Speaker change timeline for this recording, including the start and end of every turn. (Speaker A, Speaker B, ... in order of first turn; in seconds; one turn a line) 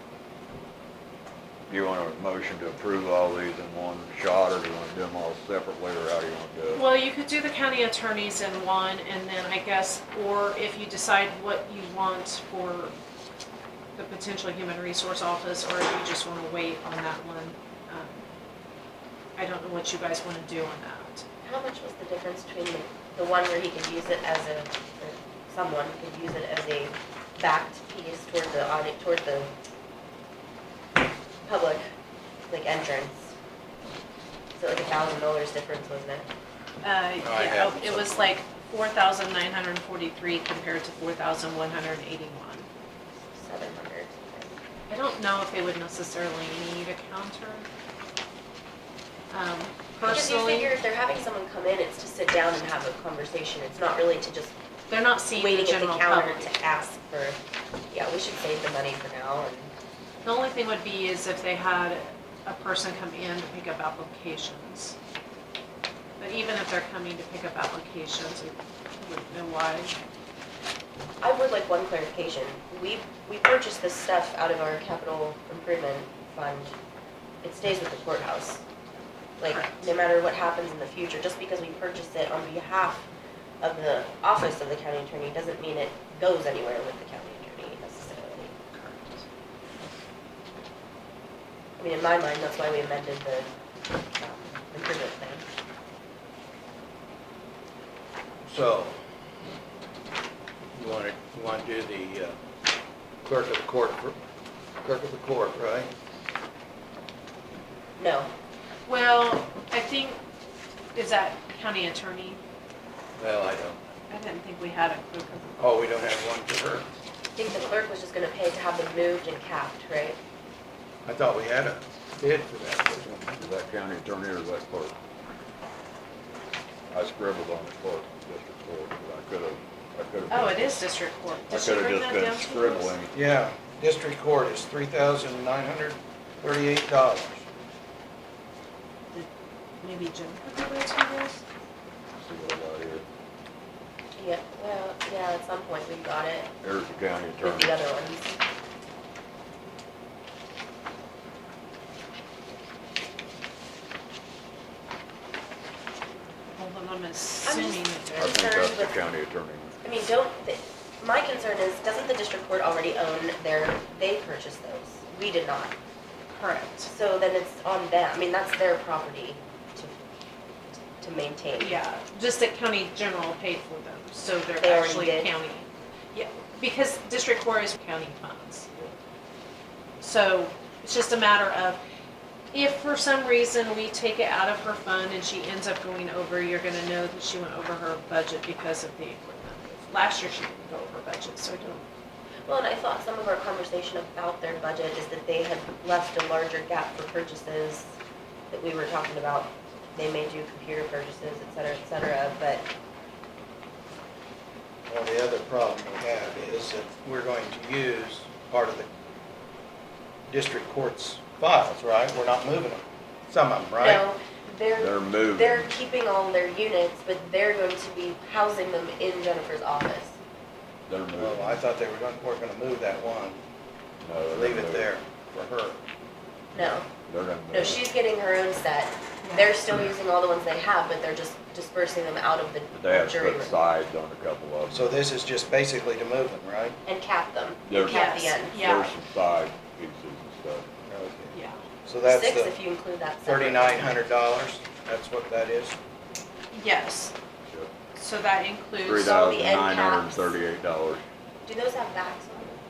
Speaker A: 1.7-6.8
Speaker B: 6.7-12.9
Speaker B: 13.9-18.3
Speaker B: 19.4-21.2
Speaker C: 21.4-29.5
Speaker C: 31.4-31.8
Speaker C: 32.5-33.3
Speaker C: 34.5-36.3
Speaker B: 36.8-42.7
Speaker D: 37.2-38.3
Speaker C: 43.3-44.5
Speaker B: 44.9-47.7
Speaker B: 49.3-50.7
Speaker C: 50.0-54.5
Speaker B: 54.9-56.5
Speaker C: 55.3-59.7
Speaker B: 60.2-65.0
Speaker B: 66.2-69.9
Speaker C: 71.2-76.7
Speaker C: 77.4-78.6
Speaker C: 79.4-83.1
Speaker B: 79.5-79.7
Speaker C: 83.6-88.5
Speaker B: 88.7-89.2
Speaker C: 91.8-93.5
Speaker C: 94.2-95.5
Speaker D: 98.5-99.0
Speaker D: 100.7-102.3
Speaker D: 103.2-104.2
Speaker D: 104.8-105.9
Speaker C: 108.0-108.3
Speaker B: 108.8-110.2
Speaker B: 110.9-112.4
Speaker D: 113.2-113.8
Speaker B: 114.1-115.6
Speaker D: 115.6-116.9
Speaker C: 117.3-120.2
Speaker D: 121.0-123.4
Speaker A: 123.4-124.9
Speaker A: 126.9-130.8
Speaker B: 130.3-133.0
Speaker A: 131.5-133.1
Speaker D: 133.1-137.4
Speaker B: 139.8-141.4
Speaker A: 142.2-143.0
Speaker C: 144.2-146.5
Speaker A: 146.6-147.7
Speaker C: 147.4-148.3
Speaker B: 156.6-158.4
Speaker C: 157.4-158.9
Speaker A: 158.2-159.8
Speaker C: 159.8-165.7
Speaker B: 166.3-166.9
Speaker C: 166.9-170.0
Speaker C: 171.0-171.8
Speaker B: 171.6-178.7
Speaker C: 174.6-175.3
Speaker B: 180.0-181.8
Speaker B: 182.5-191.9
Speaker C: 192.4-197.9
Speaker C: 198.5-202.7
Speaker D: 204.9-208.9
Speaker D: 210.3-214.0
Speaker C: 213.8-220.1
Speaker A: 214.8-215.7
Speaker A: 220.9-221.6
Speaker D: 221.1-223.4
Speaker A: 224.0-224.9
Speaker D: 224.3-225.8
Speaker C: 226.5-226.9
Speaker A: 227.1-227.8
Speaker C: 227.5-233.5
Speaker B: 229.2-229.5
Speaker A: 232.7-234.8
Speaker D: 234.7-236.8
Speaker C: 236.8-238.6
Speaker A: 237.7-240.7
Speaker B: 237.8-238.9
Speaker D: 240.9-242.5
Speaker B: 241.3-241.6
Speaker C: 242.0-243.9
Speaker D: 243.2-245.8
Speaker B: 246.5-247.1
Speaker B: 247.9-249.1
Speaker A: 248.8-251.0
Speaker C: 249.0-250.4
Speaker C: 251.4-252.6